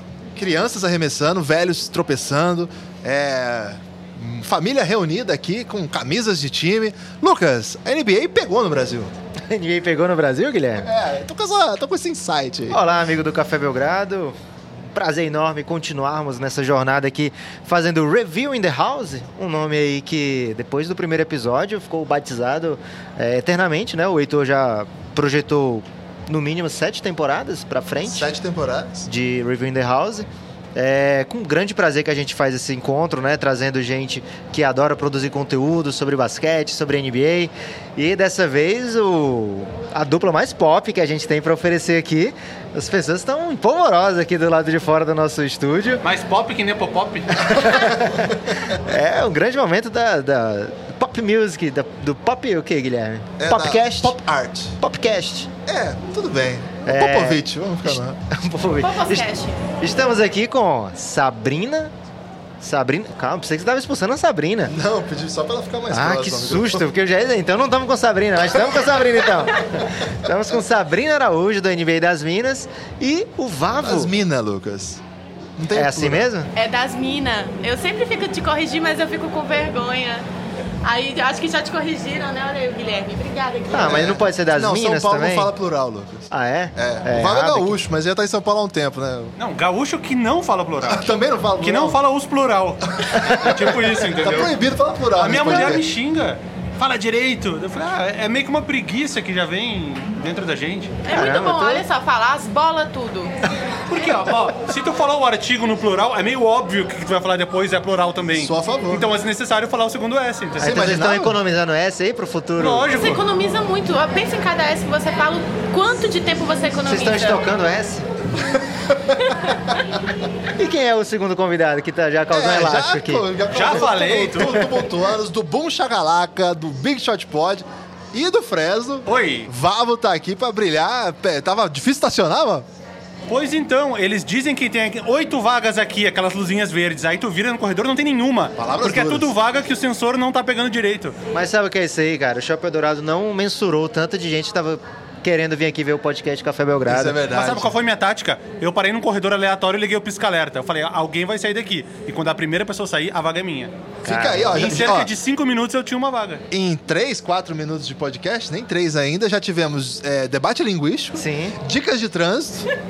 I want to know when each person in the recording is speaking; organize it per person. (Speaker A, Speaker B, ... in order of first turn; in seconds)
Speaker A: 0.3-9.2, 10.8-12.8, 28.0-29.1, 47.7-48.8, 53.4-54.8, 55.6-58.2, 64.7-66.9, 73.8-75.0, 75.6-76.3, 83.8-89.3, 90.8-92.0, 93.0-95.8, 108.3-109.1, 110.6-111.4, 122.3-132.7, 138.6-139.3, 146.8-147.7, 154.0-155.1, 156.5-162.7
Speaker B: 9.4-10.9, 12.7-14.3, 14.9-28.3, 29.1-46.0, 47.3-54.2, 54.8-55.5, 56.9-59.3, 59.8-61.9, 62.6-64.7, 65.9-74.1, 75.7-76.5, 83.7-85.5, 86.3-87.8, 101.1-101.8, 110.6-112.9, 116.8-118.1, 120.5-123.8, 141.3-147.2, 154.0-154.8, 161.2-161.6
Speaker C: 46.0-47.8, 89.4-91.1, 91.6-94.5, 95.2-101.0, 103.9-110.7, 112.6-113.2, 123.5-124.7, 129.1-129.5, 133.3-141.1, 147.3-153.7, 154.5-156.4
Speaker D: 58.8-59.6, 76.5-80.2, 80.8-84.1, 101.0-103.3, 104.0-104.3, 112.9-117.5